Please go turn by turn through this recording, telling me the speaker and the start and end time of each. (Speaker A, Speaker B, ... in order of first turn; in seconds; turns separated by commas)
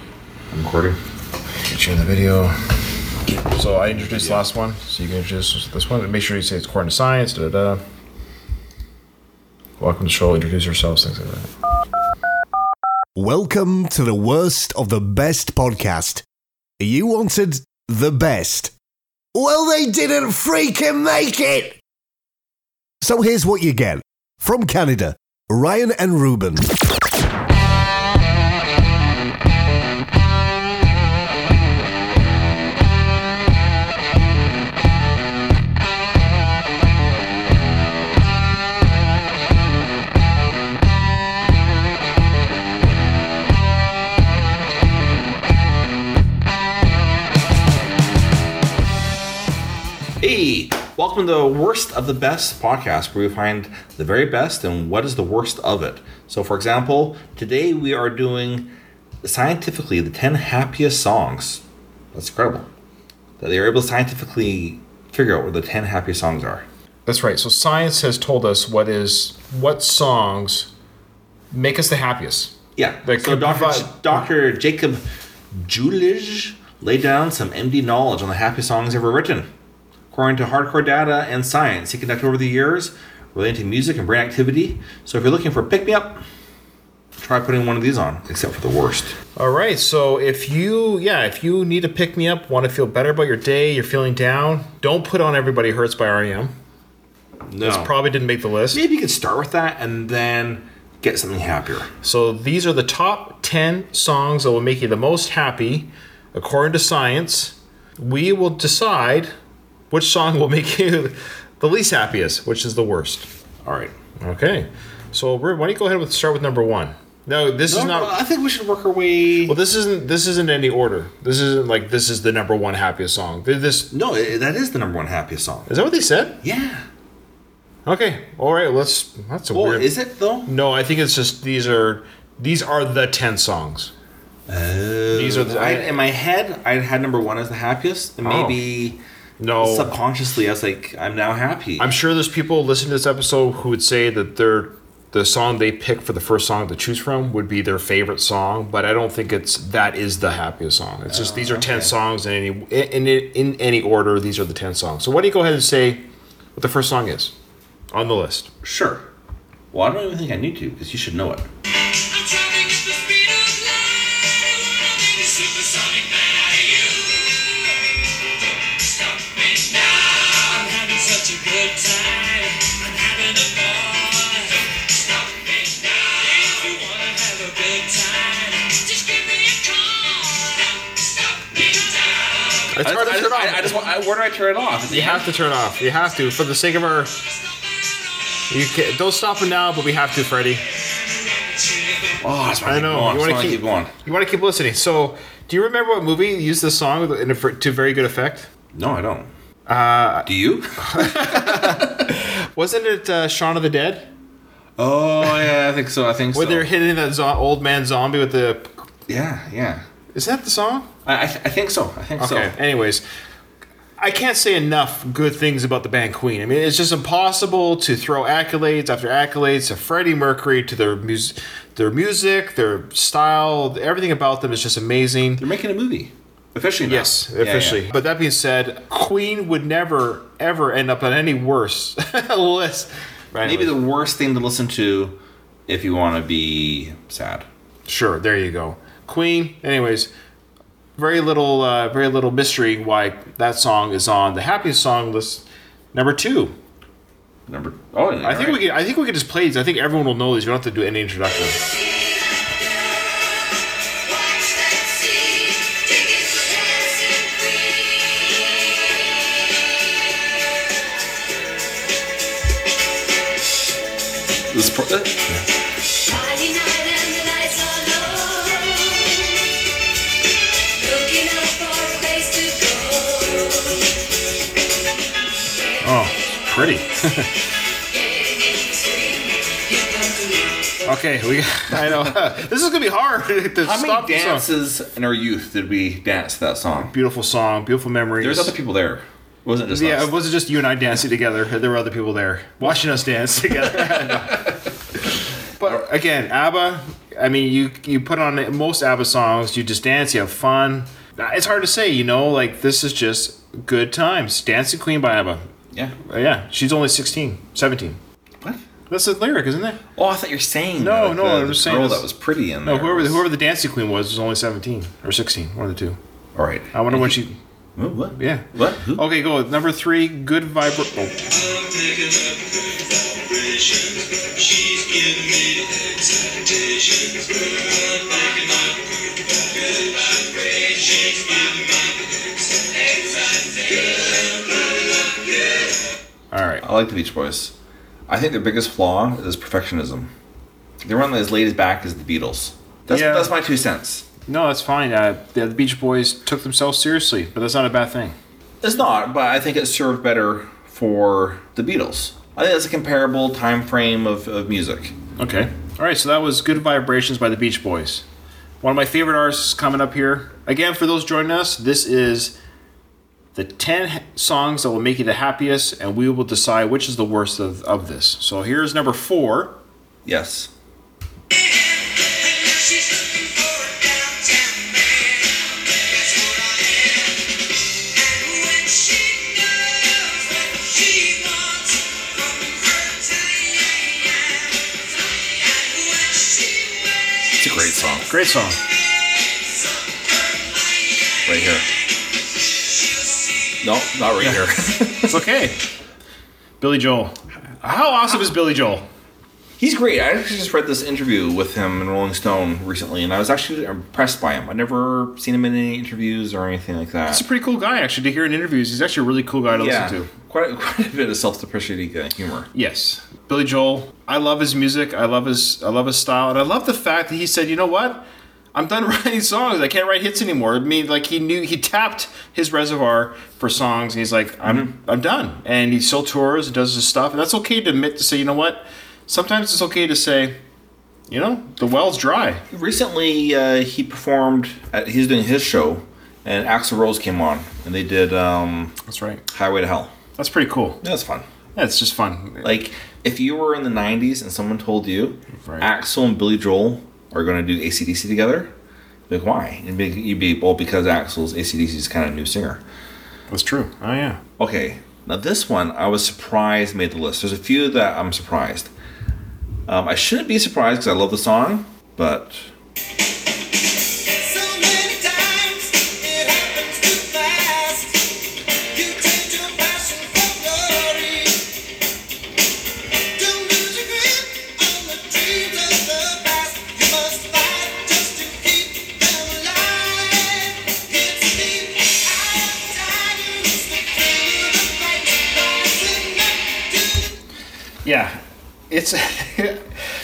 Speaker A: 0.5-1.0, Speaker B: 1.6-2.5, Speaker B: 3.5-7.8, Speaker A: 4.0-4.4, Speaker B: 9.8-11.5, Speaker C: 13.1-16.2, Speaker C: 16.8-18.7, Speaker C: 19.3-21.8, Speaker C: 23.0-26.8, Speaker A: 50.2-58.7, Speaker A: 59.2-61.6, Speaker A: 62.1-62.7, Speaker A: 63.4-66.6, Speaker B: 67.1-70.7, Speaker B: 71.5-74.2, Speaker A: 72.8-75.0, Speaker A: 75.5-79.5, Speaker A: 80.1-86.2, Speaker A: 87.2-89.1, Speaker B: 89.3-96.5, Speaker A: 97.5-97.9, Speaker B: 97.6-98.8, Speaker A: 98.7-101.9, Speaker B: 102.0-109.3, Speaker B: 109.9-113.2, Speaker A: 113.6-113.9, Speaker B: 114.2-118.2, Speaker A: 117.7-119.5, Speaker B: 119.4-123.9, Speaker A: 123.9-125.7, Speaker B: 125.7-126.4, Speaker A: 126.4-126.8, Speaker B: 127.8-129.9, Speaker A: 129.5-130.5, Speaker B: 130.5-133.9, Speaker A: 134.5-139.0, Speaker B: 135.1-136.0, Speaker B: 138.2-138.6, Speaker B: 139.4-139.9, Speaker A: 139.6-141.9, Speaker B: 141.8-156.0, Speaker A: 151.1-151.9, Speaker B: 156.6-157.3, Speaker B: 157.9-158.5, Speaker A: 158.6-159.0, Speaker A: 159.7-161.5, Speaker D: 162.1-167.3, Speaker D: 168.8-174.8, Speaker D: 176.0-181.0, Speaker B: 182.7-183.8, Speaker A: 182.8-185.2, Speaker B: 184.9-187.1, Speaker B: 188.5-190.6, Speaker A: 192.2-193.9, Speaker B: 192.6-198.5, Speaker A: 198.7-199.3, Speaker B: 199.7-200.3, Speaker A: 200.2-202.0, Speaker B: 200.8-204.1, Speaker A: 204.8-206.7, Speaker B: 206.3-208.7, Speaker A: 209.1-209.8, Speaker B: 210.1-210.9, Speaker A: 211.1-212.5, Speaker B: 212.2-213.0, Speaker B: 214.0-225.4, Speaker A: 225.4-227.8, Speaker B: 226.8-233.7, Speaker A: 233.4-235.2, Speaker A: 235.7-237.4, Speaker B: 237.9-240.1, Speaker B: 241.0-246.5, Speaker A: 247.5-248.6, Speaker B: 248.2-251.6, Speaker D: 254.5-257.3, Speaker A: 264.5-265.4, Speaker D: 266.1-269.3, Speaker D: 270.8-273.8, Speaker B: 275.8-277.3, Speaker D: 278.0-280.7, Speaker B: 280.8-284.5, Speaker A: 283.6-286.9, Speaker B: 286.8-288.5, Speaker A: 288.2-290.1, Speaker B: 289.7-294.6, Speaker A: 293.9-294.4, Speaker B: 295.6-305.4, Speaker B: 306.0-308.0, Speaker B: 308.9-309.8, Speaker A: 309.9-313.2, Speaker B: 310.8-312.0, Speaker B: 312.6-316.0, Speaker A: 316.4-317.1, Speaker B: 316.7-317.4, Speaker A: 317.8-319.0, Speaker B: 318.1-321.3, Speaker B: 336.3-336.6, Speaker A: 336.6-337.5, Speaker A: 338.1-340.1, Speaker A: 340.8-344.0, Speaker B: 342.9-343.3, Speaker B: 344.3-348.1, Speaker A: 348.6-354.9, Speaker B: 355.2-358.0, Speaker B: 358.6-362.4, Speaker B: 363.3-369.6, Speaker A: 370.0-370.5, Speaker D: 372.3-375.2, Speaker D: 376.1-376.7, Speaker D: 378.0-384.0, Speaker D: 385.9-386.8, Speaker A: 387.4-388.1, Speaker B: 388.1-388.6, Speaker A: 391.2-391.7, Speaker A: 393.6-395.2, Speaker B: 395.1-395.6, Speaker B: 396.6-398.9, Speaker A: 399.6-407.2, Speaker B: 407.1-410.1, Speaker A: 409.5-412.5, Speaker B: 412.5-430.3, Speaker A: 424.4-424.7, Speaker B: 431.1-432.4, Speaker A: 432.5-438.7, Speaker B: 438.9-439.2, Speaker A: 439.3-439.9, Speaker B: 440.2-440.8, Speaker A: 440.8-441.2, Speaker B: 441.6-442.5, Speaker A: 442.4-448.5, Speaker B: 445.4-445.7, Speaker A: 449.1-452.6, Speaker B: 453.3-454.2, Speaker A: 454.4-458.7, Speaker A: 459.7-462.5, Speaker D: 464.1-468.1, Speaker D: 468.7-471.5, Speaker D: 473.1-487.1, Speaker B: 487.8-489.8